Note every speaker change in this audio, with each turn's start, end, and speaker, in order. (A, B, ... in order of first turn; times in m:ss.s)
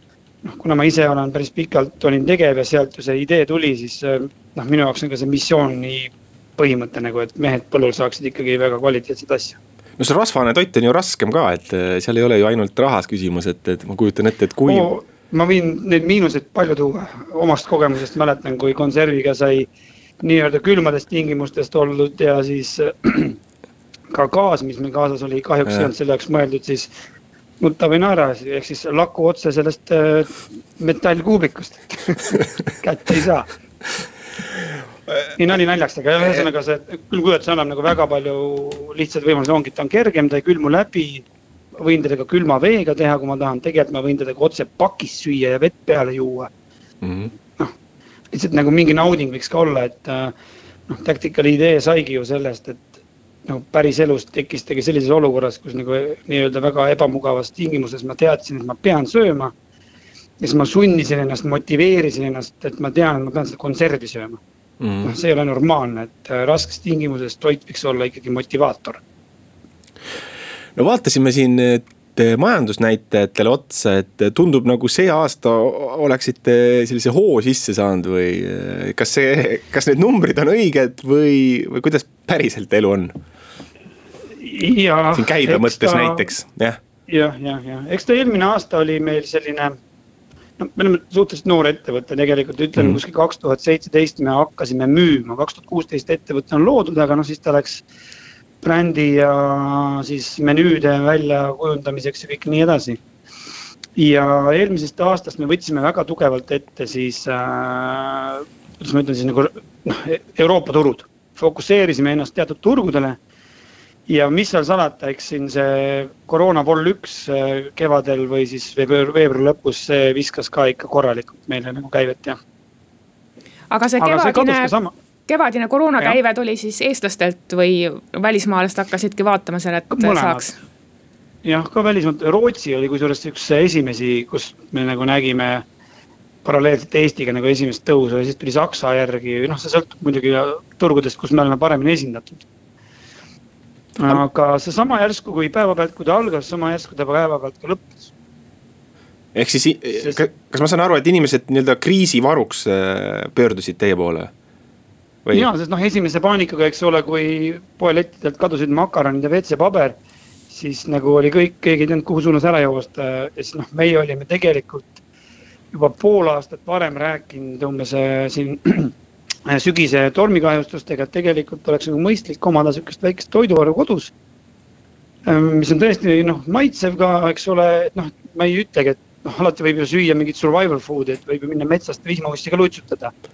0:00.4-0:09.6 A
0:10.0-0:14.9 B
0:14.6-0:19.7 A
0:20.2-0:23.4 A
0:24.1-0:26.9 A
0:27.6-0:33.5 A
0:35.4-0:41.2 A
0:41.8-0:46.5 A
0:47.0-0:47.3 B
0:48.3-0:50.3 A
0:50.9-0:52.9 A
0:53.4-0:59.5 A
1:00.4-1:04.4 A
1:04.8-1:05.1 B
1:05.0-1:09.0 A
1:10.8-1:23.2 B
1:24.4-1:26.3 A
1:25.1-1:26.8 B
1:27.1-1:29.8 A
1:30.6-1:37.8 A
1:38.6-1:43.0 A
1:44.0-1:53.2 A
1:54.1-2:02.4 A
2:03.7-2:04.7 C
2:04.0-2:04.9 A
2:05.3-2:10.6 C
2:09.9-2:10.6 A
2:11.4-2:15.6 A
2:16.4-2:22.4 A
2:24.0-2:28.1 A
2:29.3-2:34.3 B
2:30.0-2:30.2 A
2:35.3-2:40.0 A
2:40.5-2:45.0 A
2:45.7-2:48.9 A
2:49.4-2:54.1 A
2:55.2-3:03.1 A